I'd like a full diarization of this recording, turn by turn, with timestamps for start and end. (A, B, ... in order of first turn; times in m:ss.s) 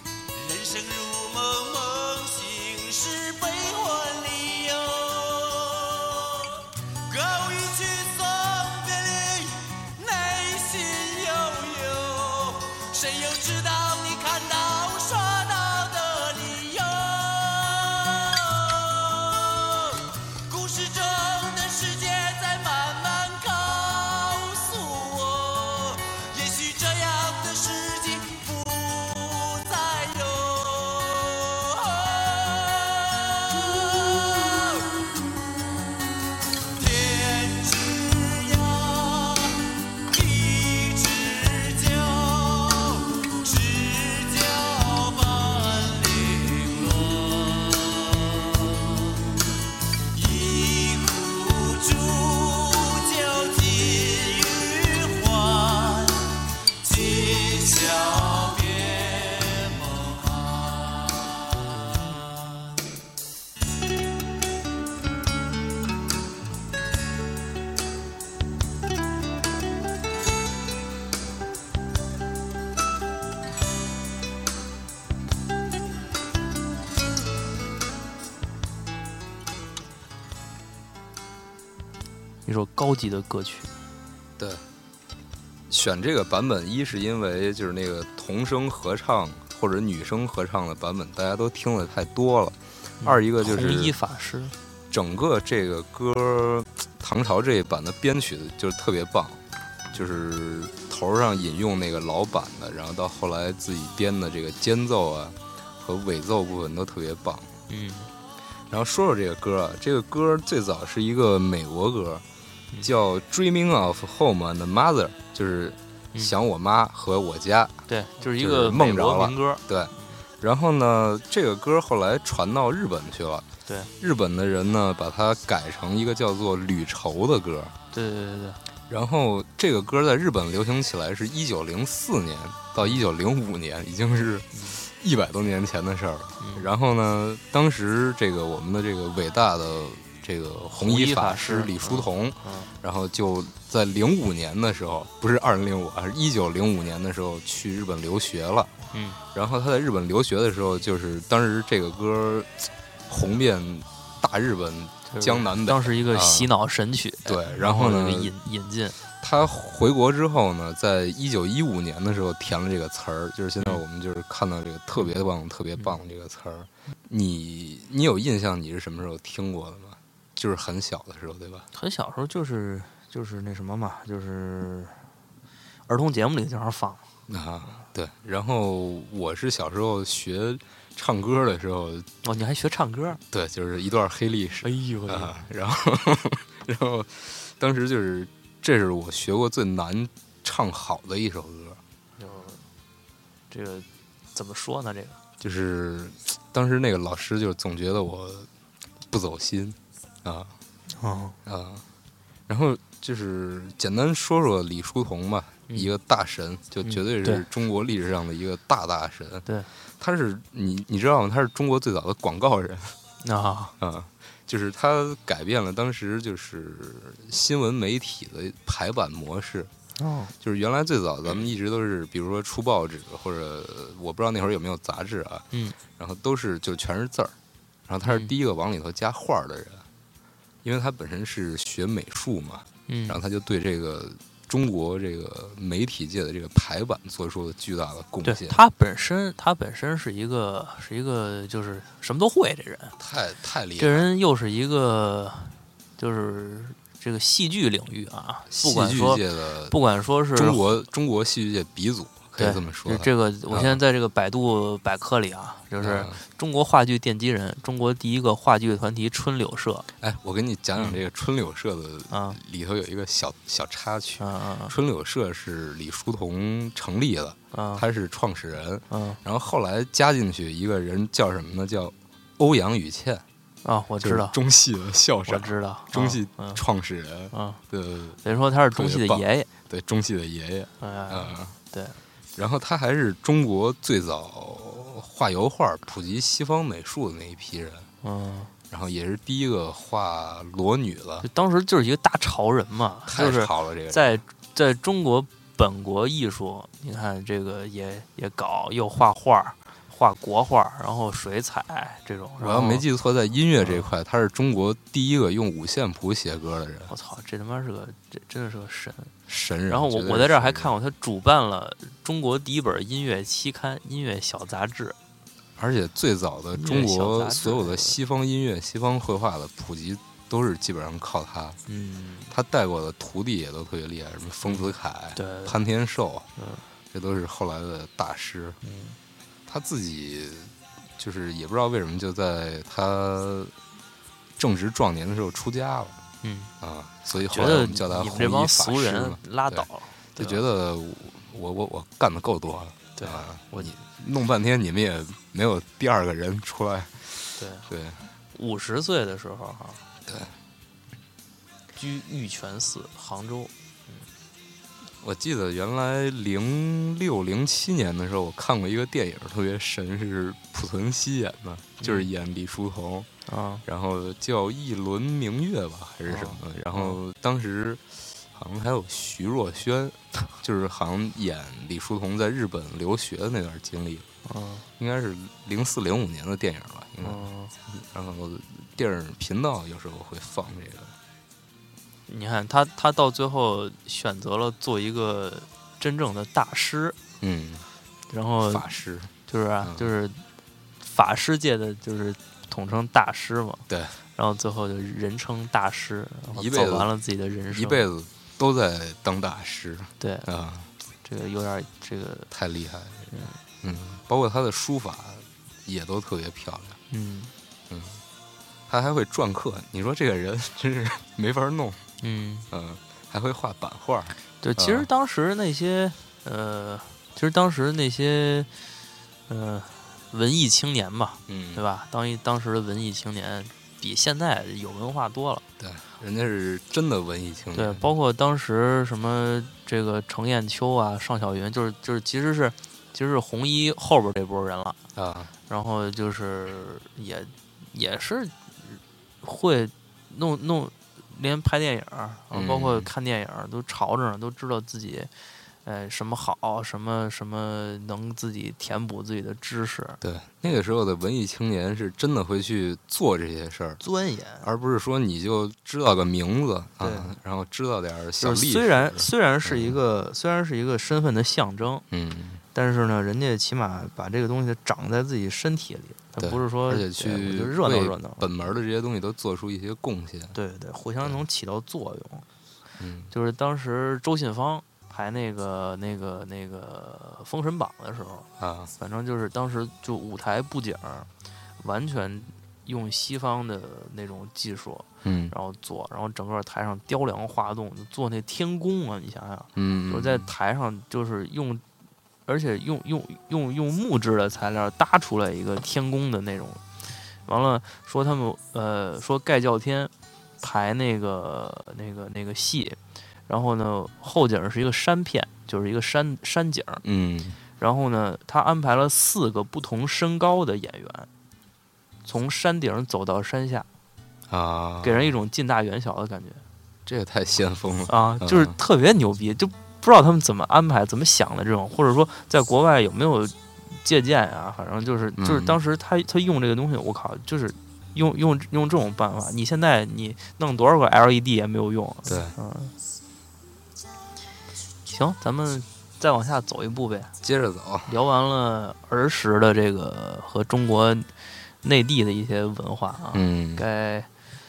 0:00.3-0:35.0 A
0:36.7-0:49.4 A
0:50.1-1:02.8 A
1:22.4-1:23.7 B
1:24.4-1:24.6 C
1:25.7-1:33.9 C
1:33.0-1:34.5 B
1:34.9-1:39.4 C
1:39.9-1:47.5 C
1:47.7-1:48.1 B
1:48.7-1:52.2 C
1:52.8-1:57.8 C
1:57.9-2:00.2 B
1:58.3-2:03.5 C
2:04.0-2:07.8 C
2:07.9-2:08.6 B
2:08.9-2:28.7 C
2:14.5-2:14.8 B
2:16.4-2:16.7 B
2:20.8-2:22.7 B
2:28.9-2:29.2 B
2:29.3-2:36.5 C
2:35.1-2:39.0 B
2:37.2-2:38.4 C
2:39.2-2:51.7 C
2:51.7-2:55.0 B
2:55.9-2:57.0 B
2:57.3-3:02.1 C
3:02.2-3:03.2 B
3:03.3-3:11.8 C
3:04.6-3:05.4 B
3:12.2-3:12.6 B
3:13.5-3:15.2 B
3:15.4-3:18.5 C
3:19.1-3:20.5 C
3:21.0-3:21.4 B
3:21.4-3:21.8 C
3:22.5-3:29.4 C
3:26.8-3:27.4 B
3:30.0-3:33.0 C
3:33.2-3:33.7 B
3:33.8-3:39.7 C
3:40.0-3:40.3 B
3:40.4-3:47.4 C
3:45.5-3:45.8 B
3:47.9-3:49.9 C
3:48.0-3:48.3 B
3:50.6-3:58.6 C
3:52.9-3:53.2 B
3:58.2-4:03.0 B
4:03.0-4:04.1 C
4:03.8-4:10.7 B
4:08.5-4:09.8 C
4:10.3-4:13.8 C
4:12.3-4:19.9 B
4:15.8-4:16.2 C
4:20.0-4:33.2 C
4:22.1-4:22.4 B
4:24.2-4:24.7 B
4:27.5-4:27.8 B
4:28.9-4:29.2 B
4:33.6-4:34.4 B
4:34.0-4:38.2 C
4:35.3-4:36.6 B
4:37.3-4:37.6 B
4:38.2-4:39.5 B
4:38.7-4:41.5 C
4:40.8-4:42.0 B
4:42.3-4:47.9 C
4:48.0-4:48.5 B
4:48.7-4:51.3 C
4:51.2-5:02.8 B
4:53.1-4:54.1 C
5:02.4-5:06.9 C
5:03.6-5:03.9 B
5:06.9-5:09.1 B
5:09.3-5:10.7 C
5:09.7-5:15.0 B
5:15.6-5:21.6 C
5:16.5-5:18.0 B
5:21.7-5:22.3 B
5:22.3-5:26.3 C
5:24.4-5:25.6 B
5:26.4-5:26.6 B
5:26.9-5:28.6 C
5:28.6-5:29.0 B
5:29.5-5:33.5 C
5:34.4-5:36.0 C
5:36.2-5:36.5 B
5:36.6-5:48.0 C
5:37.2-5:40.4 B
5:43.0-5:43.7 B
5:47.4-5:47.7 B
5:48.3-5:49.8 B
5:50.0-5:50.3 C
5:51.7-5:54.1 B
5:55.0-6:03.1 C
6:01.8-6:02.1 B
6:03.3-6:03.6 B
6:03.6-6:14.1 C
6:06.1-6:07.0 B
6:14.2-6:14.6 B
6:14.8-6:21.0 C
6:17.0-6:17.5 B
6:22.1-6:27.0 B
6:27.2-6:27.6 C
6:28.1-6:28.6 B
6:28.4-6:29.9 C
6:29.3-6:30.2 B
6:30.8-6:33.6 B
6:33.7-6:34.0 C
6:34.2-6:37.8 B
6:36.3-6:36.9 C
6:37.5-6:40.7 C
6:40.0-6:40.3 B
6:41.0-6:42.3 B
6:42.3-6:46.8 C
6:43.1-6:43.4 B
6:46.9-6:47.3 B
6:47.7-6:48.0 C
6:48.7-6:51.8 C
6:52.0-6:52.5 B
6:52.5-6:54.9 C
6:54.4-6:58.5 B
6:59.3-7:05.4 B
7:01.3-7:01.6 C
7:05.6-7:07.9 C
7:07.5-7:14.8 B
7:14.9-7:15.3 C
7:15.5-7:25.1 B
7:22.3-7:22.9 C
7:25.6-7:30.0 B
7:30.0-7:33.8 C
7:33.8-7:34.5 B
7:34.4-7:39.8 C
7:36.8-7:37.1 B
7:38.2-7:41.8 B
7:41.9-7:42.4 C
7:42.5-7:48.3 B
7:46.2-7:50.4 C
7:50.3-7:52.2 B
7:52.8-7:53.1 C
7:53.1-7:58.3 B
7:58.4-7:58.7 C
7:58.8-8:01.1 B
8:01.6-8:11.6 B
8:05.0-8:05.3 C
8:09.6-8:10.3 C
8:12.2-8:16.6 B
8:17.2-8:26.8 B
8:26.8-8:27.4 C
8:27.6-8:31.1 B
8:32.0-8:33.7 B
8:34.3-8:35.1 C
8:34.8-8:36.4 B
8:36.8-8:38.6 C
8:37.9-8:52.7 B
8:45.2-8:45.6 C
8:52.0-8:52.3 C
8:54.8-8:57.1 B
8:57.2-8:57.9 C
8:57.8-9:04.1 B
9:03.1-9:03.6 C